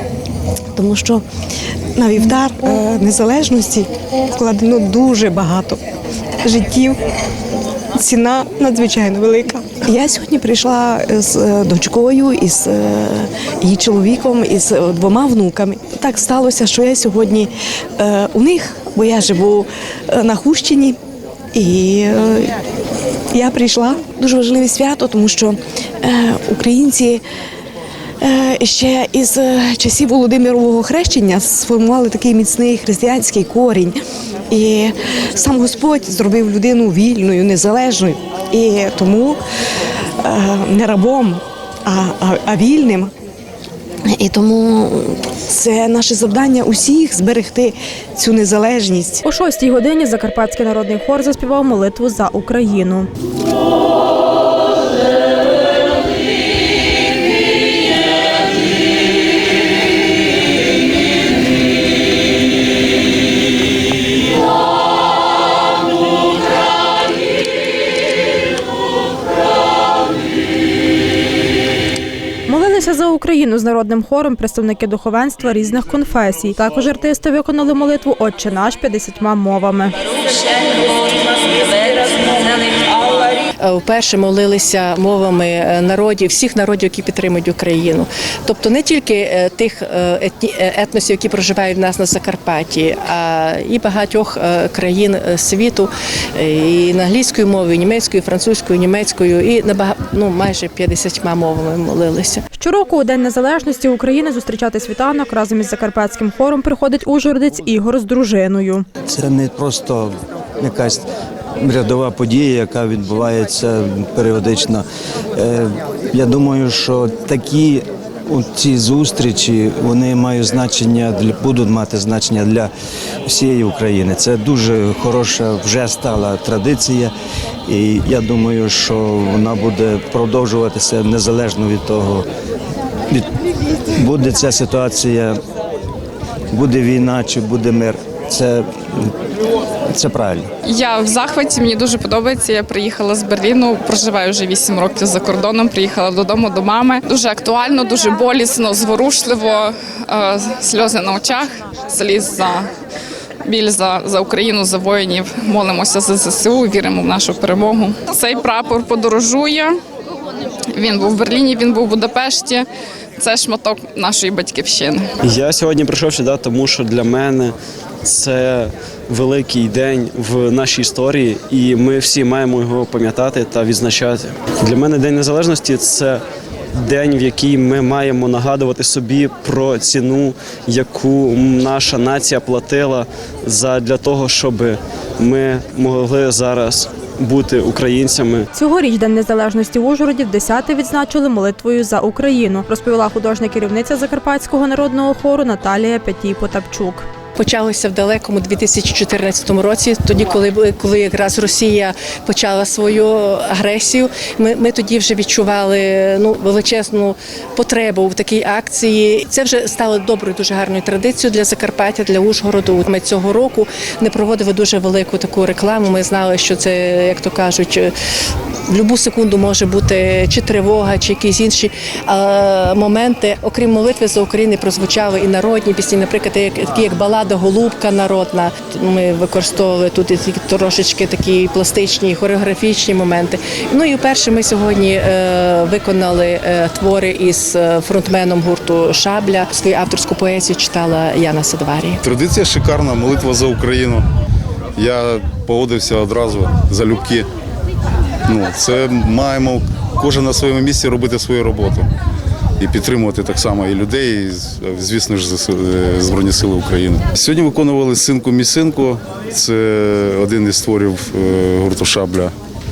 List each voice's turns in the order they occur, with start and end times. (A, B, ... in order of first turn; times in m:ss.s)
0:00.7-0:01.2 A
0:01.9-0:05.8 A
0:06.4-0:07.0 A
0:07.9-0:21.0 A
0:21.5-0:22.6 A
0:23.3-0:27.2 A
0:28.2-0:34.0 A
0:34.5-0:39.4 A
0:40.2-0:43.1 A
0:44.1-0:49.2 A
0:49.2-0:53.1 B
1:12.5-1:19.9 B
1:23.6-1:42.4 C
1:42.6-1:48.8 B
1:49.0-1:51.0 D
1:51.6-2:02.7 D
2:03.2-2:07.1 D
2:07.6-2:12.3 D
2:13.9-2:15.4 D
2:16.5-2:19.2 D
2:19.9-2:20.5 D
2:20.6-2:32.7 E
2:33.4-2:39.8 E
2:40.7-2:45.1 E
2:45.2-2:56.2 F
2:56.7-3:08.5 F
3:08.5-3:17.0 B
3:17.4-3:37.9 C
3:38.7-4:02.0 C
4:02.0-4:04.0 G
4:04.8-4:07.2 G
4:08.3-4:11.9 G
4:12.6-4:22.3 G